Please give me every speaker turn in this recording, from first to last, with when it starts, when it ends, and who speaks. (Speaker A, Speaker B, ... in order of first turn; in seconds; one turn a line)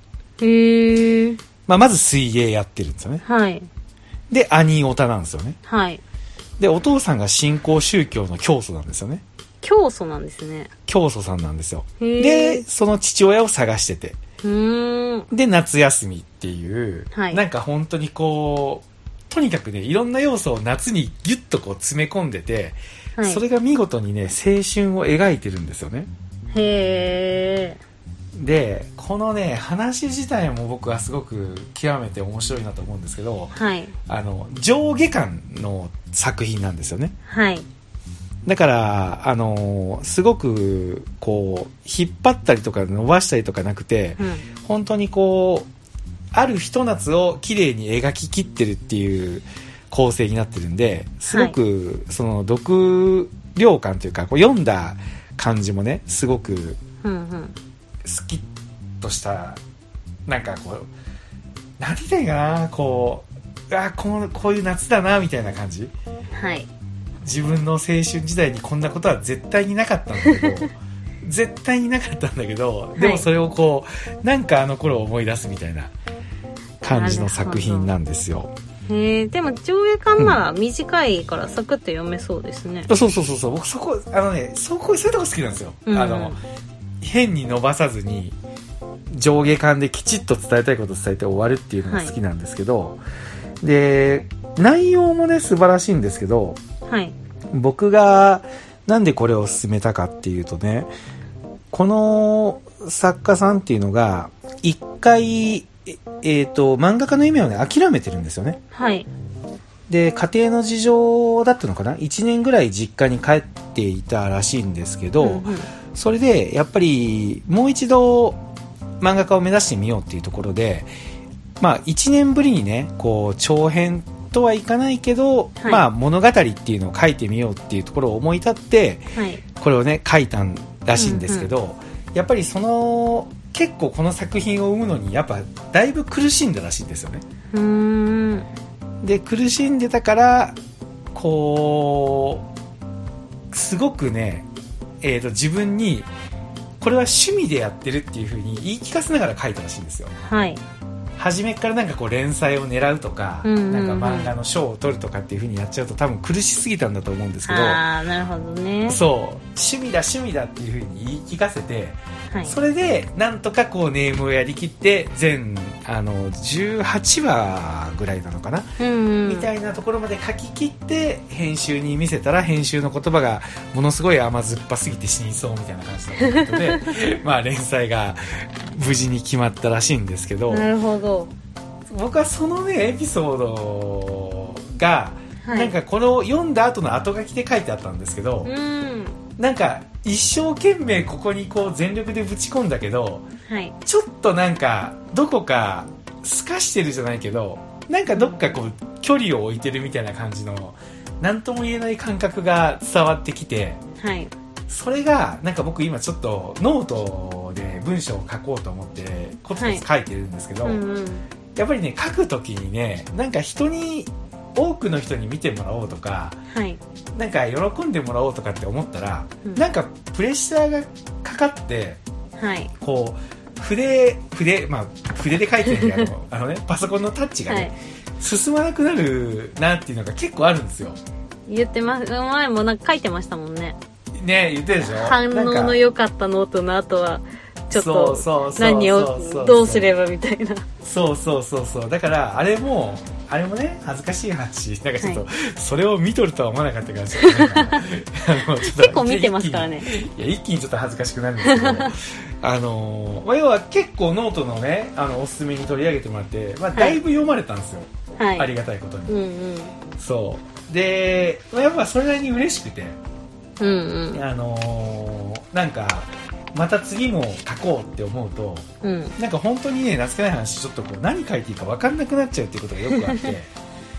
Speaker A: 0.4-1.4
Speaker B: 1.6-3.2
Speaker A: 3.2-3.7
Speaker B: 4.3-5.6
Speaker A: 5.7-6.0
Speaker B: 6.6-9.2
Speaker A: 9.6-10.7
Speaker B: 10.9-14.2
Speaker A: 12.0-12.6
Speaker A: 14.4-15.3
Speaker B: 15.3-26.1
Speaker A: 17.1-17.4
Speaker A: 23.2-23.4
Speaker A: 26.5-27.8
Speaker B: 28.4-33.5
Speaker A: 33.5-33.9
Speaker B: 34.1-37.1
Speaker A: 37.3-37.7
Speaker B: 38.5-45.7
Speaker A: 44.2-44.4
Speaker B: 46.3-56.8
Speaker A: 51.3-51.5
Speaker A: 57.0-57.5
Speaker B: 58.0-58.5
Speaker B: 59.0-59.6
Speaker B: 60.3-60.9
Speaker B: 61.8-65.9
Speaker A: 66.3-66.7
Speaker B: 67.2-75.9
Speaker A: 70.2-70.6
Speaker A: 73.0-73.2
Speaker B: 76.8-78.5
Speaker A: 76.8-77.9
Speaker A: 78.9-82.9
Speaker B: 82.9-86.4
Speaker A: 85.9-86.4
Speaker B: 87.0-88.3
Speaker B: 89.1-93.0
Speaker A: 91.8-92.2
Speaker B: 93.6-96.6
Speaker A: 96.8-97.1
Speaker B: 97.5-100.9
Speaker B: 101.7-108.6
Speaker A: 108.7-109.1
Speaker B: 109.9-118.4
Speaker A: 115.2-115.7
Speaker B: 119.0-120.9
Speaker B: 121.6-137.2
Speaker A: 129.2-129.4
Speaker A: 131.0-131.5
Speaker A: 137.5-138.5
Speaker B: 139.0-140.6
Speaker B: 141.1-142.4
Speaker B: 143.5-144.5
Speaker B: 145.0-146.1
Speaker B: 146.8-150.1
Speaker A: 150.2-150.6
Speaker B: 151.2-157.8
Speaker A: 153.4-154.3
Speaker A: 157.4-159.0
Speaker B: 158.9-168.7
Speaker A: 162.3-162.6
Speaker A: 168.8-169.5
Speaker B: 169.2-180.7
Speaker A: 176.2-176.9
Speaker A: 180.5-181.3
Speaker B: 181.9-188.5
Speaker A: 185.4-185.7
Speaker A: 188.4-189.2
Speaker B: 189.4-193.3
Speaker A: 193.5-193.8
Speaker B: 193.8-203.8
Speaker A: 198.1-198.6
Speaker A: 204.0-204.3
Speaker B: 204.7-210.8
Speaker A: 209.6-209.8
Speaker A: 210.6-211.2
Speaker B: 211.6-216.4
Speaker A: 216.5-216.8
Speaker B: 217.1-222.0
Speaker A: 222.4-222.7
Speaker B: 222.8-231.0
Speaker A: 225.7-226.1
Speaker A: 227.5-227.7
Speaker A: 231.5-233.8
Speaker B: 234.2-235.8
Speaker A: 234.8-240.7
Speaker B: 237.7-239.9
Speaker B: 240.8-259.1
Speaker A: 247.2-247.8
Speaker A: 248.6-249.9
Speaker A: 251.4-251.9
Speaker A: 256.7-257.0
Speaker A: 258.2-258.5
Speaker A: 259.1-259.8
Speaker B: 259.9-263.0
Speaker A: 263.6-264.2
Speaker B: 264.1-273.5
Speaker A: 268.8-269.1